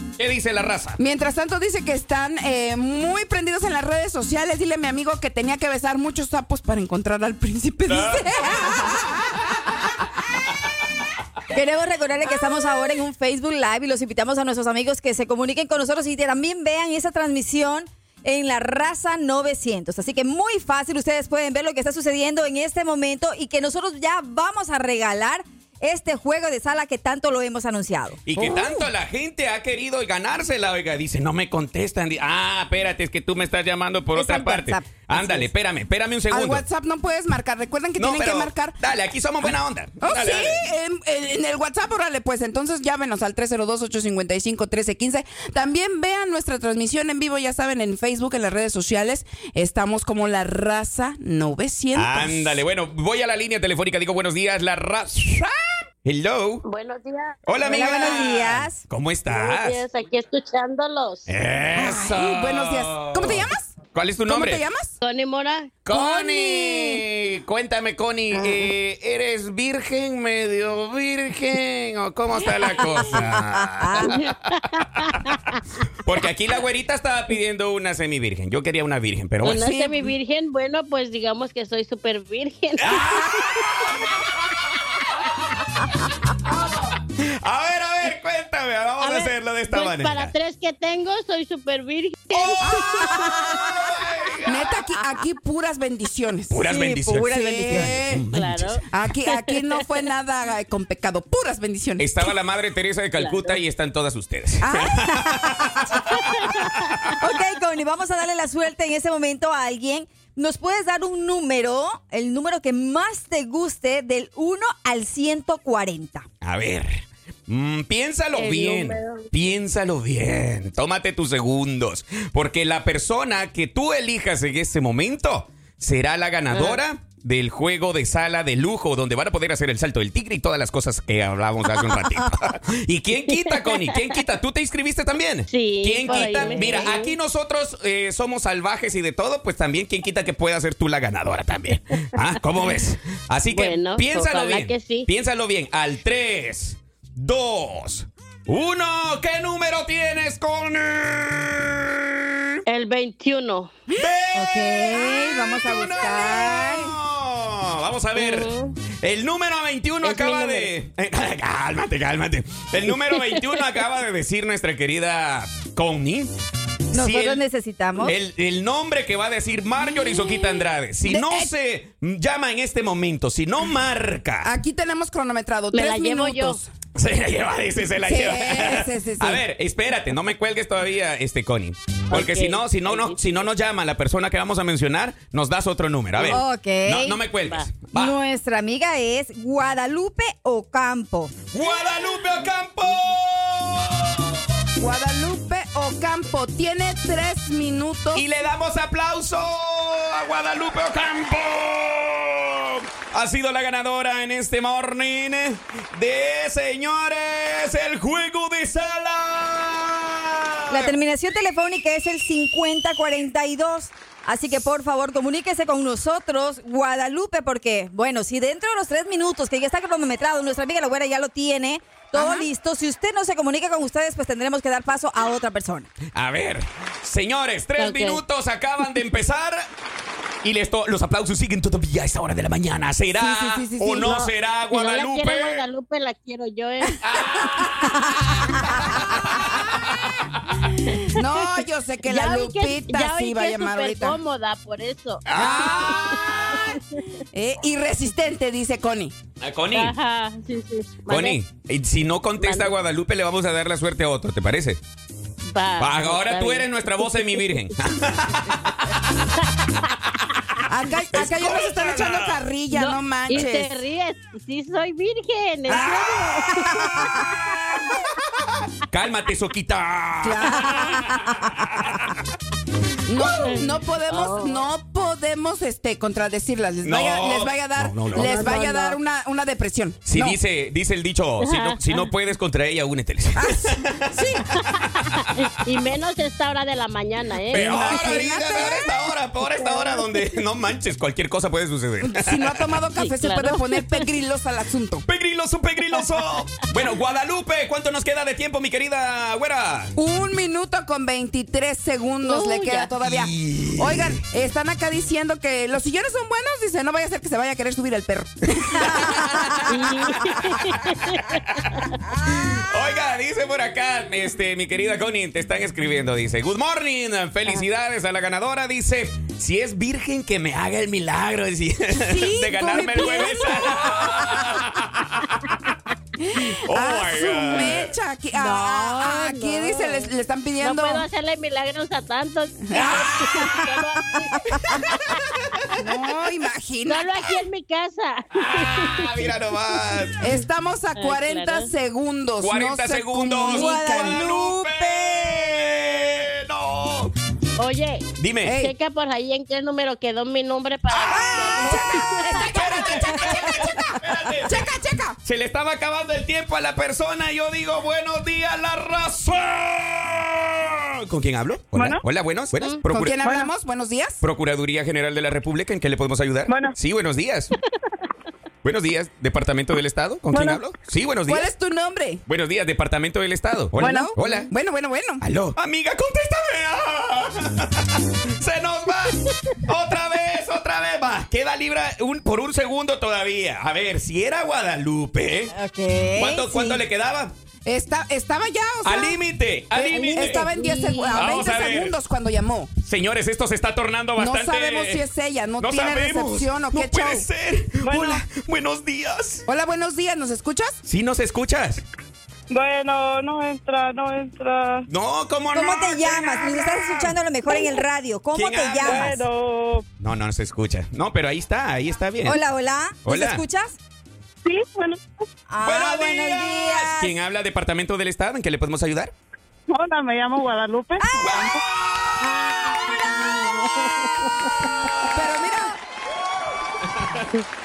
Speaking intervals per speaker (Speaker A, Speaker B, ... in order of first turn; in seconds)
Speaker A: 0.2-1.0, 7.9-9.8, 28.2-36.6, 38.0-40.6, 51.9-55.5, 56.0-56.6, 57.5-59.8, 61.3-64.6, 65.8-74.3, 76.0-80.0, 82.8-85.9, 86.4-90.3, 92.3-94.8, 96.5-98.8, 102.0-107.1, 116.4-152.6, 153.9-166.3, 166.9-167.4, 168.0-174.5, 177.0-188.2, 191.5-194.6, 198.1-210.9, 226.1-229.7, 230.4-235.6, 237.0-240.7, 245.3-246.8, 249.4-249.9, 251.1-254.8, 255.8-259.9, 261.1-262.4, 265.7-267.0, 268.9-272.2, 276.8-278.6, 280.1-285.3, 287.5-292.8, 295.1-299.9, 303.0-304.2, 308.7-309.8, 311.3-325.7, 326.6-327.9, 332.8-333.3, 334.6-335.1, 338.3-340.3, 342.4-347.1, 348.2-348.6, 350.9-351.9, 352.4-354.6, 355.2-363.2, 364.2-367.5, 368.6-371.5, 372.3-374.5, 375.2-385.5, 386.2-387.3, 388.8-390.5, 391.1-392.0, 392.8-395.1, 395.6-399.4, 400.9-401.8, 404.9-407.2, 408.3-409.2, 410.0-412.4, 413.1-413.4, 415.6-419.1, 421.2-423.5, 424.8-425.2, 426.8-427.3
Speaker B: 1.0-9.4, 28.4-28.9, 36.3-38.8, 40.0-52.6, 61.7-63.7, 64.2-65.0, 92.6-93.6, 94.4-96.7, 97.2-98.2, 98.9-102.3, 104.6-105.1, 171.0-171.5, 174.4-176.7, 178.0-179.4, 194.8-198.2, 222.1-222.5, 233.1-234.3, 241.1-244.2, 245.3-246.0, 247.3-249.1, 260.7-263.9, 270.2-271.1, 273.1-280.4, 283.4-284.5, 287.5-289.0, 292.0-295.1, 300.0-309.6, 321.9-324.5, 326.2-331.1, 332.7-333.6, 335.8-337.4, 340.2-344.3, 348.4-348.7, 351.1-355.2, 362.9-364.2, 371.3-372.2, 373.8-375.2, 387.6-389.2, 389.7-392.7, 394.2-397.3, 399.5-400.8, 425.1-425.8
Speaker C: 11.5-28.2, 34.1-35.5, 57.6-58.8, 65.9-67.0, 73.1-74.0, 93.3-93.6, 96.7-98.2, 105.1-106.1, 107.2-116.3, 136.1-136.7, 154.3-156.9, 166.9-168.1, 186.2-187.2, 187.9-191.3, 210.7-225.9, 270.9-271.5, 343.5-345.5, 352.4-353.8, 385.5-386.8, 390.0-391.1, 405.5-409.2, 412.2-413.8, 415.5-417.2, 421.0-421.5, 422.2-423.0
Speaker D: 56.6-58.2, 59.3-61.3, 65.0-65.7, 68.3-68.7, 74.0-75.6, 79.4-83.7, 89.0-92.8, 98.3-98.8, 103.2-103.6, 106.2-106.7, 118.3-119.3, 126.5-126.8, 133.3-134.1, 135.5-137.1, 143.5-145.1, 152.7-153.7, 158.2-158.8, 160.0-160.7, 162.9-163.4, 175.7-176.6, 182.1-183.2, 227.8-228.2, 234.7-237.8, 238.5-239.3, 242.1-247.0, 249.7-251.4, 252.4-252.8, 255.5-257.7, 259.4-259.8, 262.7-267.5, 273.4-274.6, 278.1-279.0, 281.4-282.1, 284.6-288.7, 289.5-290.4, 293.0-294.0, 302.2-302.8, 309.7-311.4, 328.3-335.3, 336.9-339.2, 341.0-341.7, 347.6-352.6, 389.9-391.3, 423.2-424.7
Speaker E: 361.7-362.0, 363.2-363.5, 366.5-366.8, 370.3-370.6, 373.8-374.1, 397.8-398.2, 402.5-404.9, 408.9-409.9, 414.4-415.0, 419.7-421.6